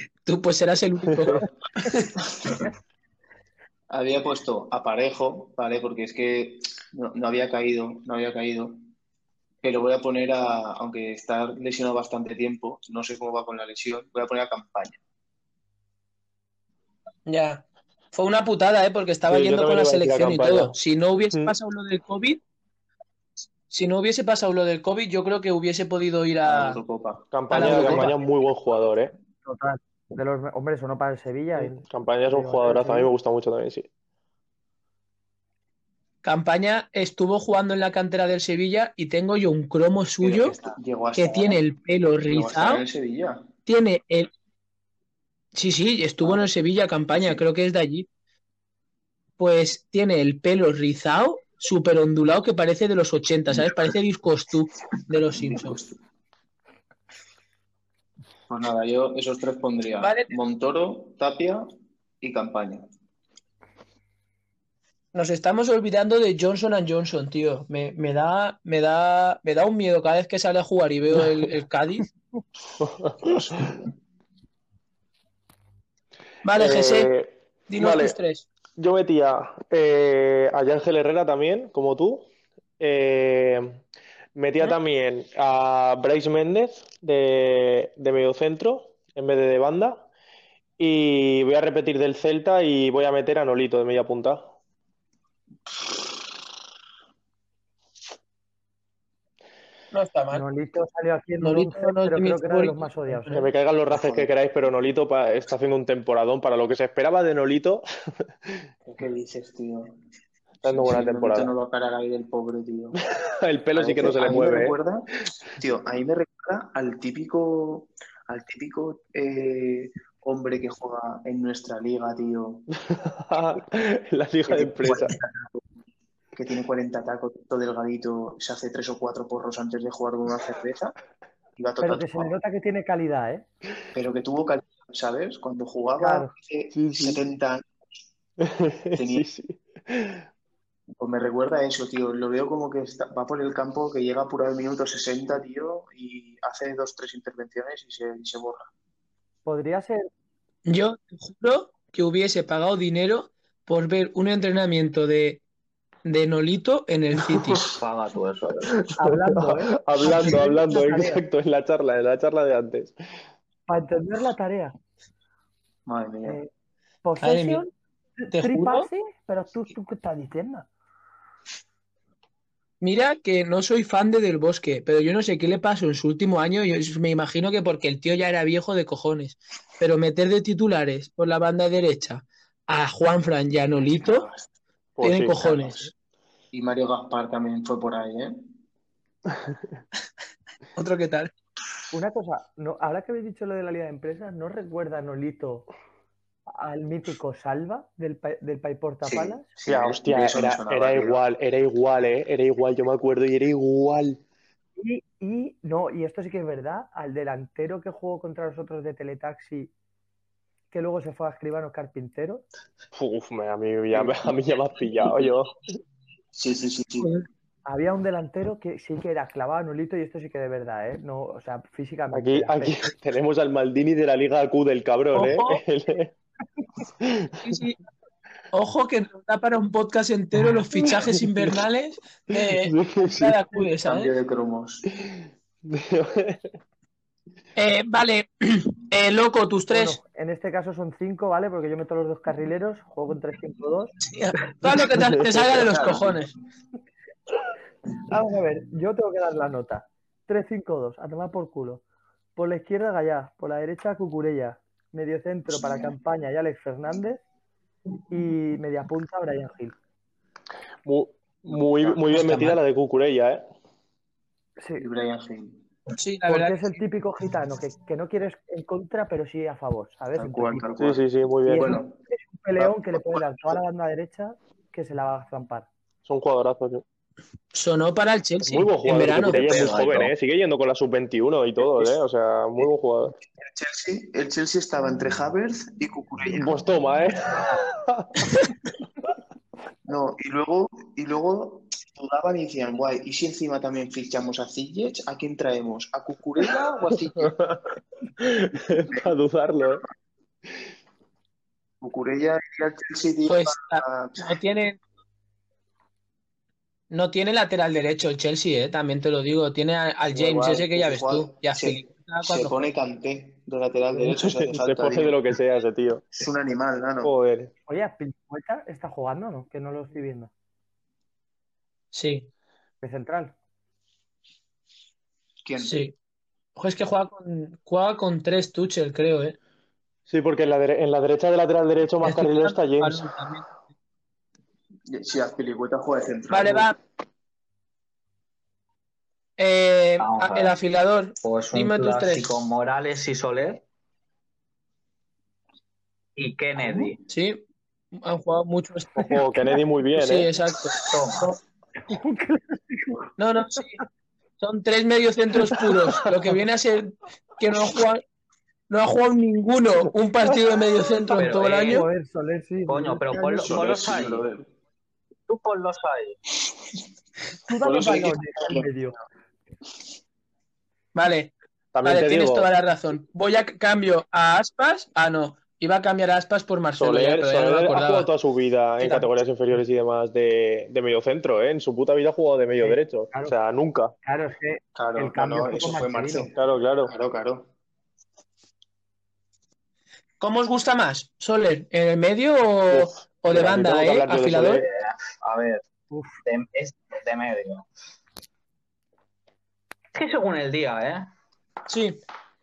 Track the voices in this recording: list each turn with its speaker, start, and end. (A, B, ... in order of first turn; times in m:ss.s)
0:00.2-0:02.1 A
0:02.2-0:02.6 B
0:03.9-0:08.8 B
0:09.6-0:15.0 B
0:17.2-0:22.4 A
0:19.3-0:20.8 C
0:23.7-0:26.8 A
0:26.4-0:28.1 B
0:27.3-0:29.1 C
0:27.5-0:28.2 A
0:29.4-0:31.8 D
0:31.5-0:33.9 C
0:32.3-0:33.1 D
0:36.2-0:40.6 A
0:40.2-0:41.6 B
0:41.2-0:42.8 A
0:42.3-0:43.5 B
0:43.6-0:44.3 A
0:45.5-0:48.1 A
0:46.2-0:46.5 B
0:47.1-0:47.4 B
0:49.4-0:55.8 A
0:53.5-0:53.9 B
0:55.3-0:55.9 B
0:58.5-1:01.6 B
1:00.0-1:00.4 A
1:02.2-1:02.8 B
1:05.1-1:12.0 A
1:12.8-1:13.3 C
1:13.2-1:13.9 B
1:16.4-1:17.1 A
1:16.6-1:18.2 C
1:17.7-1:18.4 A
1:18.8-1:22.3 C
1:22.8-1:23.8 C
1:24.3-1:30.1 C
1:30.8-1:34.5 C
1:39.9-1:40.4 A
1:40.3-1:43.4 D
1:41.4-1:43.4 A
1:43.3-1:47.8 C
1:43.9-1:44.3 B
1:48.8-1:49.9 B
1:50.6-1:53.0 B
1:50.6-1:51.5 C
1:53.4-1:54.8 C
1:53.7-2:02.7 B
2:02.9-2:05.1 C
2:04.5-2:05.6 B
2:06.3-2:11.0 B
2:11.6-2:12.3 B
2:11.8-2:13.5 D
2:13.9-2:17.7 B
2:16.0-2:16.3 D
2:16.7-2:17.2 C
2:18.4-2:20.2 C
2:18.9-2:19.2 B
2:21.0-2:28.7 B
2:29.4-2:30.1 D
2:30.6-2:35.4 A
2:36.0-2:37.6 A
2:37.8-2:38.8 E
2:38.9-2:42.9 C
2:39.0-2:41.2 D
2:43.7-2:44.7 D
2:45.8-2:46.4 B
2:47.0-2:47.7 D
2:47.2-2:47.6 A
2:48.2-2:50.7 D
2:48.3-2:48.9 A
2:52.8-3:04.3 A
3:04.0-3:04.5 B
3:05.0-3:05.6 C
3:05.0-3:05.9 A
3:05.4-3:05.9 B
3:06.5-3:08.5 B
3:10.7-3:11.3 A
3:11.9-3:15.7 D
3:16.5-3:19.5 D
3:19.0-3:21.2 B
3:19.6-3:24.2 C
3:24.8-3:29.7 D
3:30.7-3:32.4 D
3:32.9-3:35.6 C
3:33.9-3:34.3 B
3:36.3-3:37.1 B
3:37.0-3:37.2 A
3:37.6-3:42.9 D
3:42.1-3:46.1 C
3:45.1-3:45.6 A
3:47.0-3:47.3 C
3:47.4-3:47.8 A
3:48.5-3:54.1 A
3:50.8-3:51.5 C
3:52.3-3:53.4 C
3:53.8-3:54.9 B
3:55.0-3:56.5 C
3:57.6-4:00.0 A
3:59.7-4:04.0 D
4:04.0-4:06.3 A
4:05.0-4:05.4 C
4:05.4-4:06.2 B
4:08.1-4:11.8 D
4:12.4-4:17.2 D
4:15.6-4:15.9 B
4:18.1-4:19.7 D
4:20.8-4:23.4 C
4:21.5-4:22.1 B
4:22.1-4:22.6 A
4:24.6-4:24.8 D
4:24.8-4:25.6 B
4:25.9-4:26.8 A
4:26.3-4:30.7 D
4:30.1-4:32.0 B
4:30.8-4:31.8 C
4:31.5-4:35.7 D
4:32.6-4:33.5 B
4:36.0-4:36.8 C
4:37.5-4:39.6 A
4:38.4-4:43.1 C
4:39.4-4:40.1 E
4:39.4-4:39.9 B
4:43.4-4:46.6 B
4:46.3-4:48.2 C
4:49.8-4:57.4 B
4:57.2-4:57.6 C
4:58.2-4:59.8 C
5:01.8-5:04.3 B
5:03.3-5:04.8 A
5:06.9-5:12.7 A
5:10.1-5:15.2 B
5:13.9-5:16.1 C
5:16.1-5:17.1 B
5:17.0-5:17.5 C
5:17.7-5:20.3 D
5:21.9-5:22.3 A
5:22.8-5:23.3 D
5:25.4-5:25.8 B
5:25.6-5:25.9 A
5:26.6-5:29.4 A
5:30.1-5:33.1 C
5:32.0-5:33.5 A
5:34.9-5:36.7 B
5:36.3-5:36.8 A
5:39.4-5:42.3 A
5:40.0-5:40.5 E
5:41.2-5:43.6 E
5:46.2-5:47.0 E
5:46.6-5:46.9 D
5:47.1-5:49.2 A
5:49.0-5:50.3 C
5:50.0-5:50.8 A
5:50.8-5:51.3 E
5:51.8-5:53.1 D
5:53.2-5:53.8 A
5:54.4-5:58.0 A
5:58.7-6:01.9 A
6:01.2-6:01.9 E
6:01.2-6:03.6 D
6:02.7-6:04.2 E
6:03.4-6:04.5 B
6:05.3-6:06.2 E
6:07.5-6:09.0 D
6:07.6-6:08.7 B
6:10.9-6:11.3 A
6:11.7-6:12.5 C
6:11.8-6:18.1 A
6:16.8-6:23.9 C
6:18.8-6:19.1 A
6:22.6-6:23.4 D
6:24.0-6:26.3 D
6:24.7-6:27.5 B
6:26.4-6:26.9 C
6:30.2-6:34.6 A
6:32.7-6:34.7 C
6:34.4-6:35.6 E
6:35.9-6:36.2 D
6:36.2-6:37.7 E
6:39.9-6:41.1 E
6:41.7-6:42.0 A